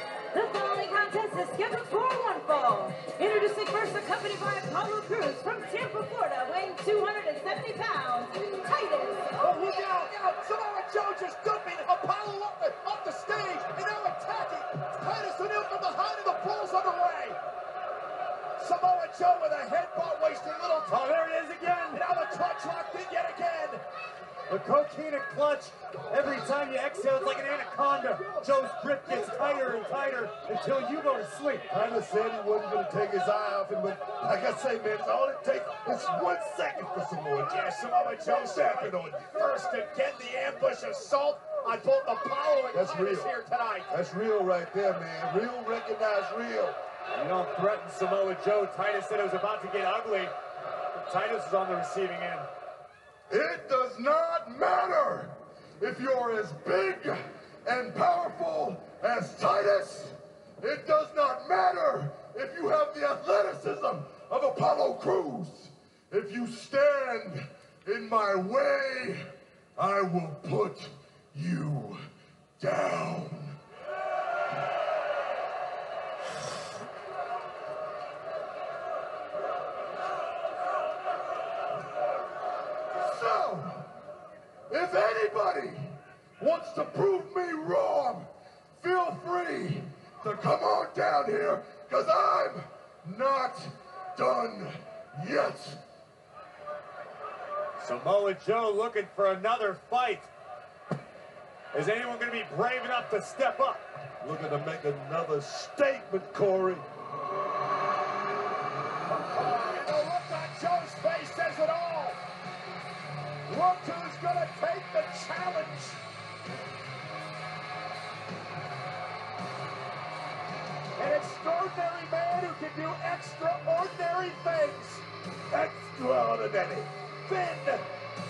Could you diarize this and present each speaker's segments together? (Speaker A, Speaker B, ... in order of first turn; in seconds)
Speaker A: 0.3-9.6
Speaker B: 9.4-17.4, 18.6-21.0, 21.9-23.8, 37.5-43.9, 109.1-112.2, 113.5-116.0, 121.0-127.8
Speaker C: 20.9-22.0, 24.5-31.7, 47.1-50.3, 50.9-52.5, 97.8-100.3, 101.7-103.9
Speaker D: 31.7-37.7, 38.4-39.2, 42.7-43.3, 43.9-46.8, 53.3-69.2, 69.8-72.0, 72.6-73.6, 83.0-83.9, 84.7-95.8, 104.2-106.8, 125.8-126.6